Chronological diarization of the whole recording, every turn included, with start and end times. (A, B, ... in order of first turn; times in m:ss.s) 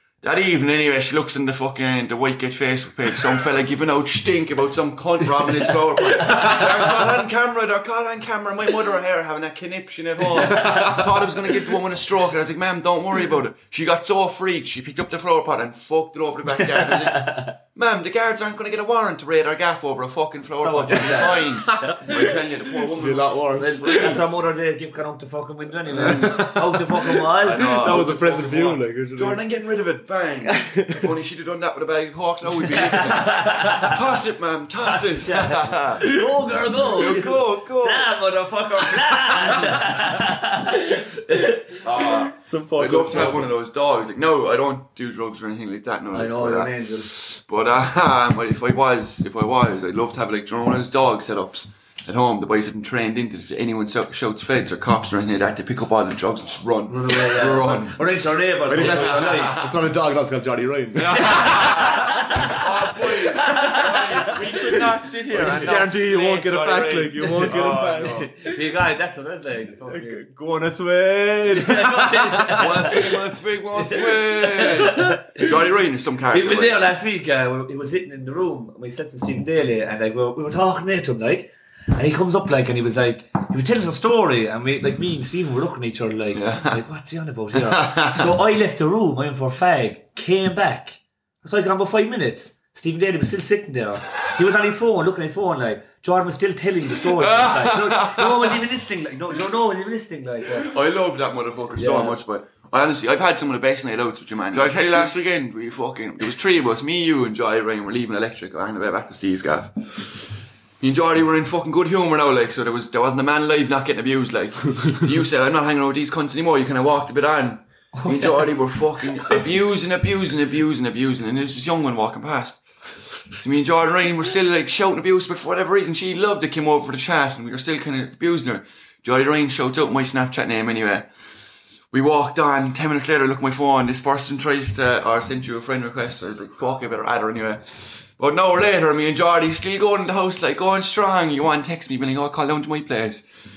0:00.2-0:24.4 A
0:06.2-0:06.7 B
0:10.5-0:11.0 C
0:16.8-0:17.5 B
0:20.6-0:22.0 B
0:21.6-0:22.3 C
0:23.0-0:24.2 C
0:23.6-0:28.0 B
0:25.9-0:26.4 A
0:26.0-0:29.4 C
0:27.4-0:36.1 A
0:30.5-0:31.1 C
0:32.8-0:34.0 B
0:34.8-0:41.9 B
0:36.9-0:38.1 A
0:41.8-0:58.0 A
0:42.3-0:43.5 C
0:46.1-0:47.1 B
0:56.9-0:59.6 B
0:58.7-1:02.2 C
0:58.7-0:59.7 A
1:01.0-1:08.3 A
1:01.2-1:04.4 B
1:04.3-1:08.6 C
1:08.0-1:10.2 B
1:09.8-1:12.7 C
1:11.5-1:15.5 B
1:12.5-1:16.9 A
1:16.3-1:40.7 B
1:26.3-1:26.8 A
1:27.6-1:28.3 A
1:37.0-1:38.6 A
1:40.5-2:02.6 A
1:41.8-1:42.2 B
1:58.0-1:58.5 B
2:03.3-2:11.1 A
2:11.9-2:23.2 A